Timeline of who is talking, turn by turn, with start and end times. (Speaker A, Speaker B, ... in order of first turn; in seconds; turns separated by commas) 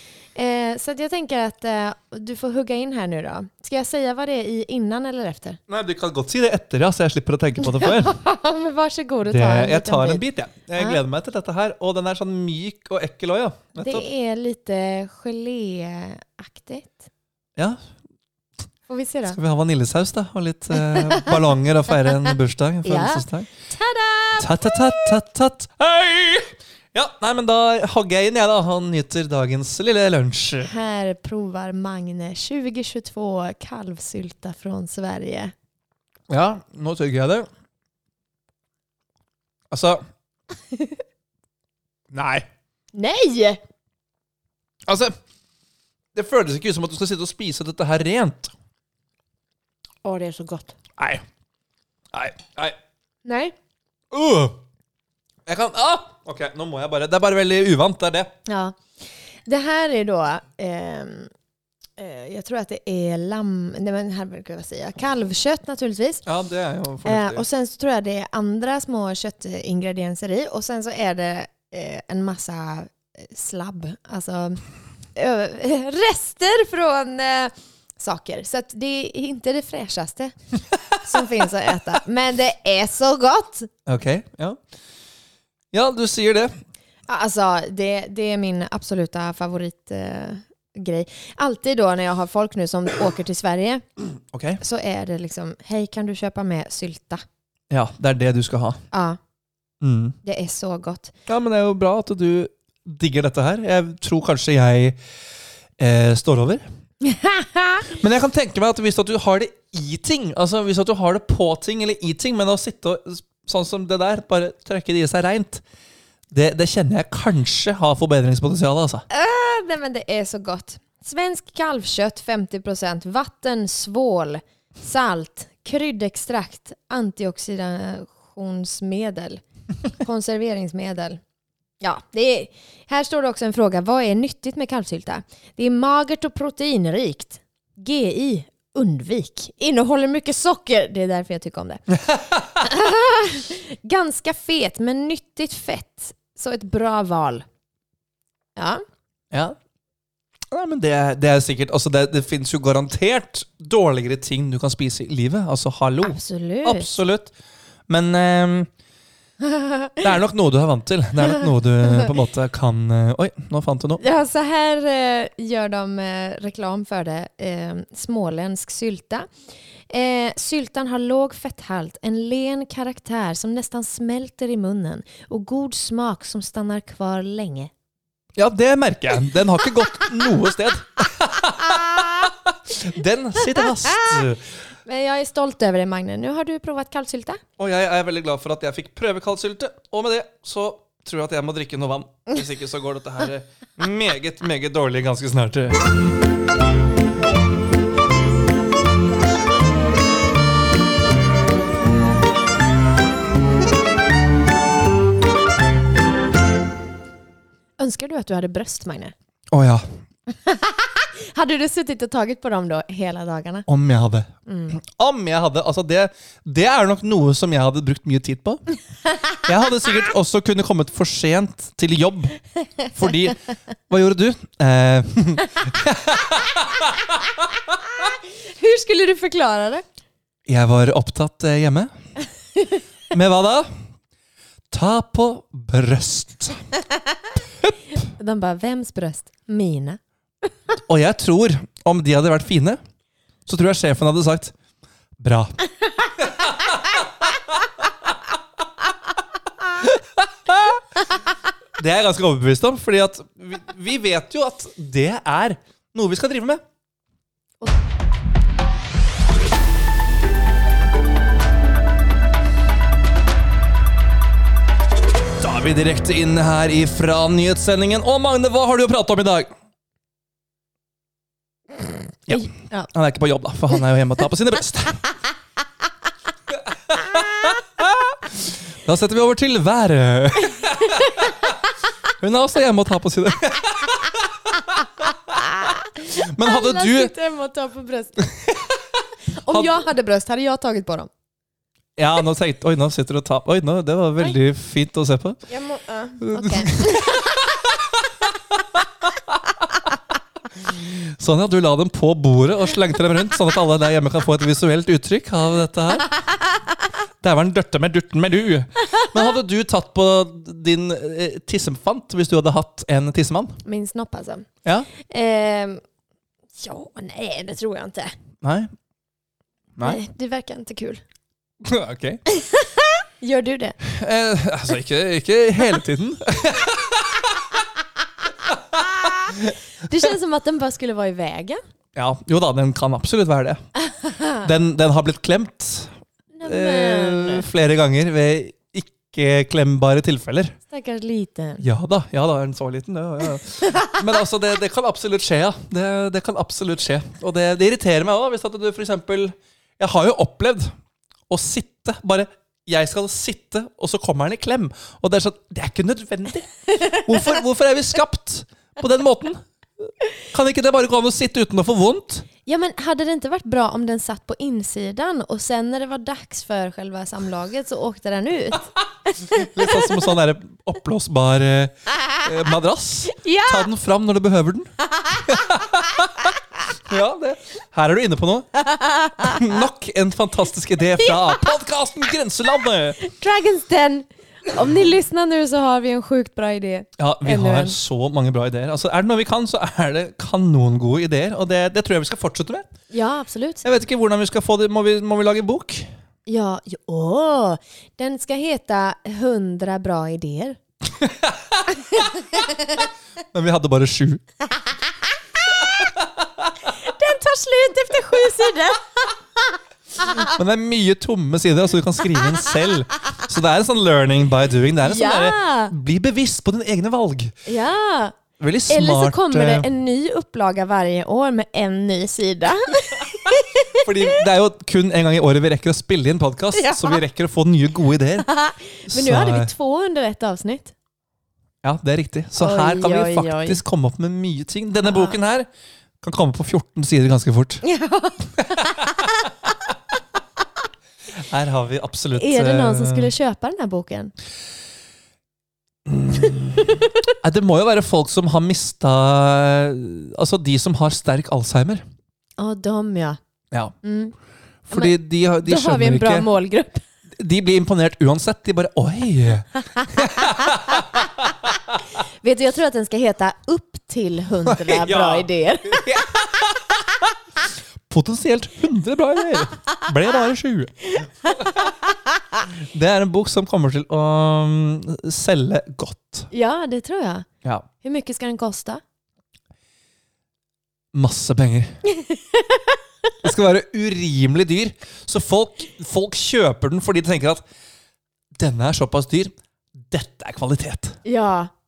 Speaker A: 0.3-5.6, Speaker B: 5.7-8.1, Speaker A: 7.6-10.2, Speaker B: 9.3-14.0, Speaker A: 13.8-17.1, Speaker A: 18.9-19.4, Speaker B: 19.3-23.5, Speaker A: 20.9-21.4, Speaker A: 22.8-25.1, Speaker B: 24.4-30.7, Speaker A: 30.6-35.5, Speaker B: 36.3-37.5, Speaker B: 39.7-40.0, Speaker A: 40.7-41.0, Speaker B: 42.1-42.5, Speaker A: 42.9-43.6, Speaker B: 44.9-45.1, Speaker B: 46.1-48.5, Speaker A: 50.0-50.8, Speaker B: 51.0-51.2, Speaker B: 52.1-52.8, Speaker A: 53.2-53.5, Speaker B: 54.1-54.6, Speaker B: 55.5-58.3, Speaker A: 58.5-58.9, Speaker A: 59.5-61.3, Speaker A: 62.0-66.2, Speaker B: 66.2-67.4, Speaker A: 67.0-74.6, Speaker A: 75.1-80.3, Speaker A: 80.9-83.7, Speaker B: 83.9-84.6, Speaker B: 85.7-86.5, Speaker A: 87.1-93.8, Speaker B: 94.3-94.6, Speaker A: 94.6-97.2, Speaker B: 97.7-98.8, Speaker A: 98.9-99.2, Speaker B: 99.8-100.2, Speaker A: 100.2-101.1, Speaker B: 101.3-105.0, Speaker B: 105.8-106.6, Speaker A: 107.0-107.9, Speaker B: 107.9-115.6, Speaker B: 116.3-119.0, Speaker A: 119.1-131.2, Speaker A: 131.8-141.8, Speaker B: 142.0-142.4, Speaker A: 142.4-147.4, Speaker A: 148.6-148.8, Speaker B: 149.3-149.6, Speaker B: 150.5-157.3, Speaker A: 156.0-156.9, Speaker B: 157.9-158.7, Speaker A: 159.4-159.9, Speaker B: 160.0-164.0, Speaker A: 164.0-169.3, Speaker A: 169.9-177.7, Speaker B: 178.4-184.5, Speaker A: 184.8-187.4, Speaker B: 187.6-195.9, Speaker A: 207.8-209.1, Speaker B: 209.5-209.8, Speaker A: 210.3-213.7, Speaker B: 213.7-218.6, Speaker A: 214.5-214.8, Speaker B: 219.4-222.4, Speaker B: 222.9-227.2, Speaker A: 227.9-229.8, Speaker B: 230.5-231.9, Speaker B: 233.1-233.7, Speaker B: 234.7-236.6, Speaker A: 238.0-240.0, Speaker B: 240.8-242.8, Speaker B: 243.5-244.5, Speaker B: 245.2-245.5, Speaker B: 246.2-247.4, Speaker B: 249.8-250.8, Speaker B: 251.8-256.6, Speaker B: 265.4-269.5, Speaker B: 272.3-275.0, Speaker A: 272.3-272.9, Speaker B: 276.9-281.3, Speaker A: 280.7-281.3, Speaker B: 282.2-284.3, Speaker A: 285.3-288.5, Speaker B: 286.1-287.1, Speaker A: 289.3-291.1, Speaker B: 289.5-289.7, Speaker B: 292.0-295.4, Speaker A: 295.5-297.4, Speaker B: 296.2-297.7, Speaker B: 300.6-306.1, Speaker B: 307.2-313.6, Speaker A: 313.6-315.8, Speaker A: 316.6-318.1, Speaker B: 318.4-318.7, Speaker A: 319.8-321.0, Speaker B: 321.6-322.2, Speaker A: 322.3-323.8, Speaker B: 323.8-327.4, Speaker A: 329.0-331.6, Speaker B: 329.1-329.5, Speaker B: 331.9-333.6, Speaker A: 333.8-334.4, Speaker B: 334.4-335.9, Speaker A: 336.3-337.5, Speaker B: 336.4-340.6, Speaker A: 340.7-341.6, Speaker B: 341.6-350.7, Speaker A: 343.6-343.9, Speaker B: 351.3-362.3, Speaker A: 362.4-370.0, Speaker B: 369.3-374.7, Speaker A: 373.1-373.7, Speaker A: 375.0-375.5, Speaker B: 375.2-378.5, Speaker A: 378.6-379.4, Speaker B: 379.2-383.0, Speaker A: 383.0-387.8, Speaker B: 387.0-392.7, Speaker A: 392.9-393.6, Speaker B: 393.6-395.9, Speaker A: 396.3-400.6, Speaker B: 401.0-401.7, Speaker A: 401.7-402.8, Speaker B: 403.3-404.2, Speaker A: 405.5-405.9, Speaker A: 406.7-410.3, Speaker B: 410.1-417.3, Speaker A: 414.8-415.7, Speaker A: 417.4-424.2, Speaker B: 418.4-419.7, Speaker B: 423.7-428.3, Speaker A: 426.5-427.0, Speaker A: 428.2-430.7, Speaker B: 428.9-429.5, Speaker B: 431.6-435.5, Speaker A: 432.4-433.6, Speaker A: 434.9-435.1, Speaker B: 436.0-437.6, Speaker A: 437.6-439.3, Speaker B: 438.6-439.0, Speaker B: 441.2-443.1, Speaker A: 442.1-444.1, Speaker B: 445.8-451.8, Speaker A: 446.6-447.1, Speaker A: 452.4-453.2, Speaker A: 453.8-454.1, Speaker B: 454.7-456.3, Speaker A: 454.7-456.8, Speaker B: 457.1-461.8, Speaker A: 459.7-461.0, Speaker A: 462.0-466.1, Speaker B: 464.4-467.0, Speaker B: 467.9-471.6, Speaker A: 470.9-472.4, Speaker B: 472.5-476.3, Speaker A: 476.3-477.3, Speaker A: 477.8-478.8, Speaker B: 480.9-481.8, Speaker A: 481.9-482.8, Speaker B: 483.2-487.4, Speaker B: 488.4-491.0, Speaker A: 491.0-491.5